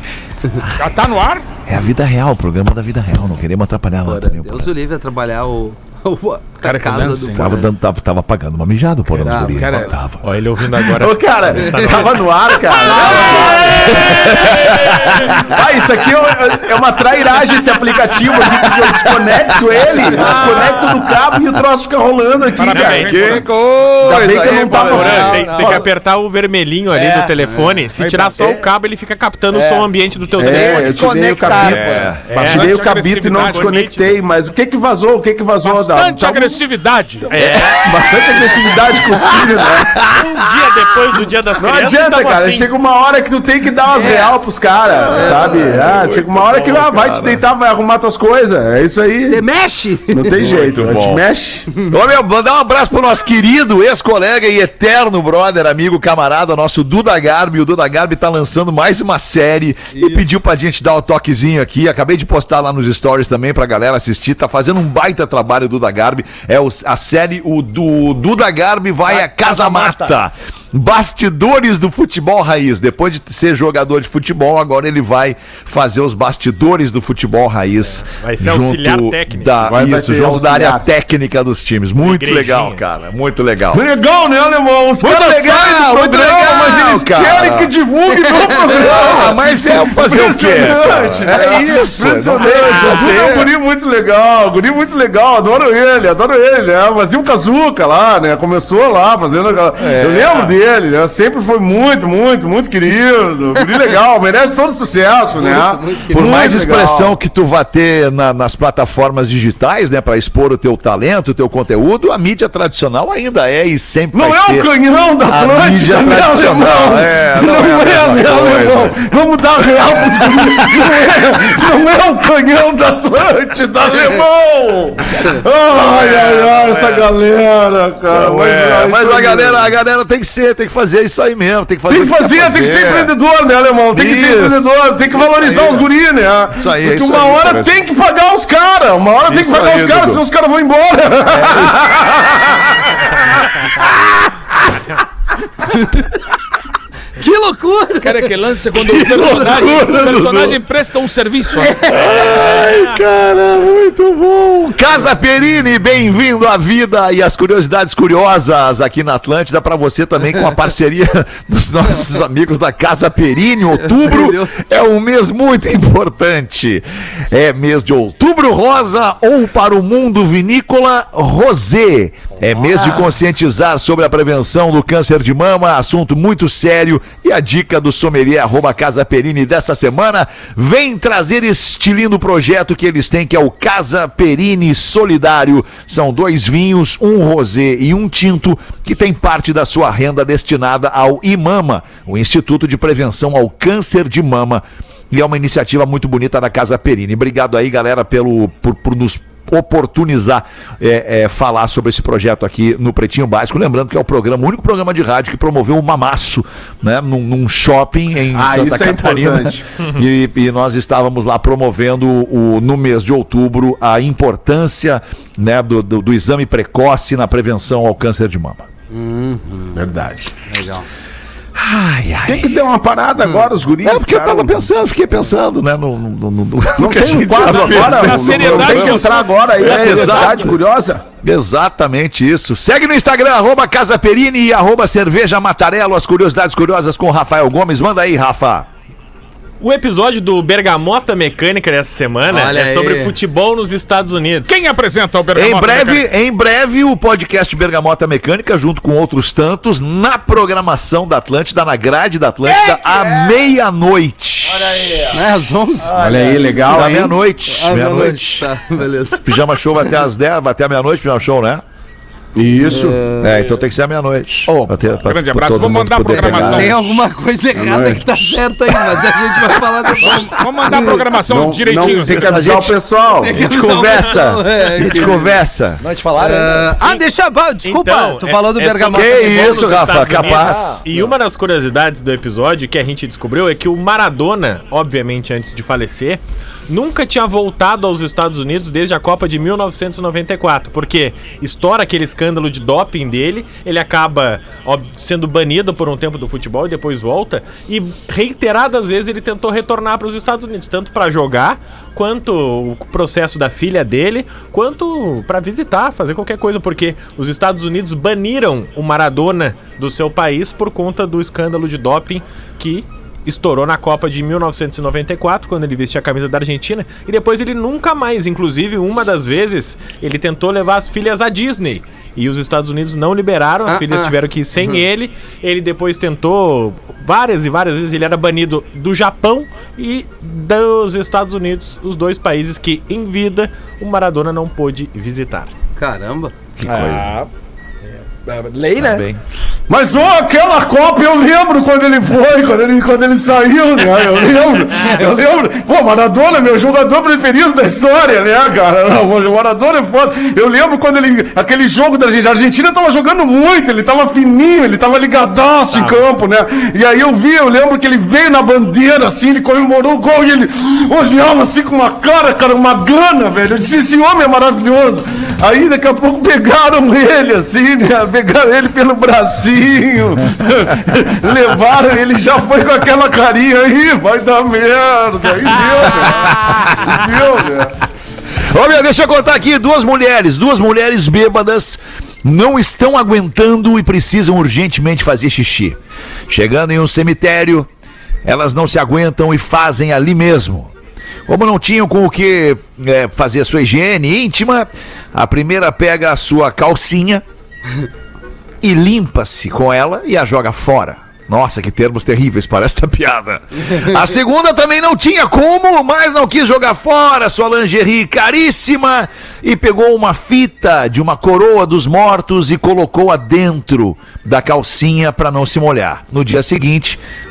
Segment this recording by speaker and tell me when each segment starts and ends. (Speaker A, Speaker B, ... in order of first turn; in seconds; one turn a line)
Speaker A: 0.8-1.4
Speaker B: 1.6-4.7
Speaker C: 4.0-7.7
Speaker A: 6.6-7.5
Speaker B: 7.3-10.2
Speaker A: 9.3-9.9
Speaker D: 10.2-12.4
Speaker E: 10.9-14.6
Speaker C: 12.7-14.1
Speaker A: 13.5-15.4
Speaker B: 15.1-15.4
Speaker E: 15.3-23.5
Speaker B: 18.8-19.3
Speaker B: 20.1-21.1
Speaker A: 22.6-23.6
Speaker D: 22.7-23.4
Speaker B: 22.9-25.5
Speaker E: 24.0-25.8
Speaker D: 24.1-31.2
Speaker F: 24.2-25.8
Speaker C: 27.4-27.7
Speaker A: 27.9-28.6
Speaker F: 29.5-29.9
Speaker E: 30.4-36.6
Speaker F: 30.4-32.2
Speaker B: 31.7-32.2
Speaker A: 32.2-34.0
Speaker D: 32.2-32.8
Speaker D: 33.4-34.1
Speaker A: 35.6-37.3
Speaker D: 37.3-37.9
Speaker E: 37.4-40.0
Speaker B: 39.2-40.5
Speaker D: 40.1-42.7
Speaker E: 41.6-49.4
Speaker C: 43.9-44.4
Speaker B: 45.0-47.4
Speaker C: 45.1-45.7
Speaker C: 49.3-50.5
Speaker E: 50.1-51.7
Speaker B: 50.4-51.2
Speaker B: 51.9-83.8
Speaker F: 69.1-70.2
Speaker D: 78.2-79.7
Speaker E: 79.6-80.8
Speaker D: 82.0-82.8
Speaker E: 83.7-107.2
Speaker B: 85.0-87.7
Speaker C: 88.2-88.5
Speaker B: 88.7-93.5
Speaker B: 99.8-100.6
Speaker C: 105.3-106.6
Speaker B: 106.1-114.7
Speaker E: 114.1-129.6
Speaker B: 115.2-119.0
Speaker B: 125.7-127.1
Speaker B: 128.1-133.1
Speaker E: 131.9-142.8
Speaker B: 133.9-135.9
Speaker B: 136.6-137.8
Speaker B: 139.2-140.2
Speaker C: 147.2-148.3
Speaker A: 148.0-151.8
Speaker B: 149.0-150.6
Speaker C: 151.6-152.4
Speaker B: 151.8-218.7
Speaker C: 163.8-164.5
Speaker E: 208.3-209.6
Speaker C: 218.9-219.8
Speaker E: 219.7-220.4
Speaker C: 220.5-220.8
Speaker B: 221.6-222.6
Speaker E: 222.2-224.7
Speaker B: 223.8-230.6
Speaker E: 226.8-231.0
Speaker A: 227.6-230.3
Speaker B: 231.2-238.7
Speaker D: 239.6-244.5
Speaker C: 242.3-243.1
Speaker A: 244.5-246.0
Speaker B: 245.3-255.1
Speaker F: 252.4-253.4
Speaker F: 254.5-255.2
Speaker C: 255.1-255.9
Speaker F: 255.8-256.8
Speaker E: 256.0-257.1
Speaker B: 256.7-258.5
Speaker C: 257.5-259.2
Speaker B: 259.1-261.6
Speaker E: 262.3-263.0
Speaker B: 263.2-266.8
Speaker F: 264.5-264.8
Speaker A: 265.0-266.8
Speaker F: 266.1-266.5
Speaker C: 266.2-270.8
Speaker E: 266.3-266.7
Speaker E: 267.5-268.4
Speaker A: 270.2-272.5
Speaker E: 271.2-273.4
Speaker B: 271.9-272.8
Speaker C: 273.2-275.4
Speaker B: 273.4-275.8
Speaker F: 274.9-275.2
Speaker F: 275.8-276.7
Speaker C: 276.2-279.7
Speaker D: 277.6-335.5
Speaker B: 278.9-280.8
Speaker F: 280.0-280.8
Speaker C: 323.7-324.8
Speaker C: 335.8-336.3
Speaker B: 336.6-337.1
Speaker F: 336.6-337.3
Speaker F: 338.2-339.0
Speaker B: 338.8-339.2
Speaker E: 339.7-377.7
Speaker D: 355.7-356.0
Speaker B: 376.0-376.9
Speaker B: 378.5-387.7
Speaker B: 388.2-390.7
Speaker B: 391.3-397.2
Speaker B: 398.6-417.0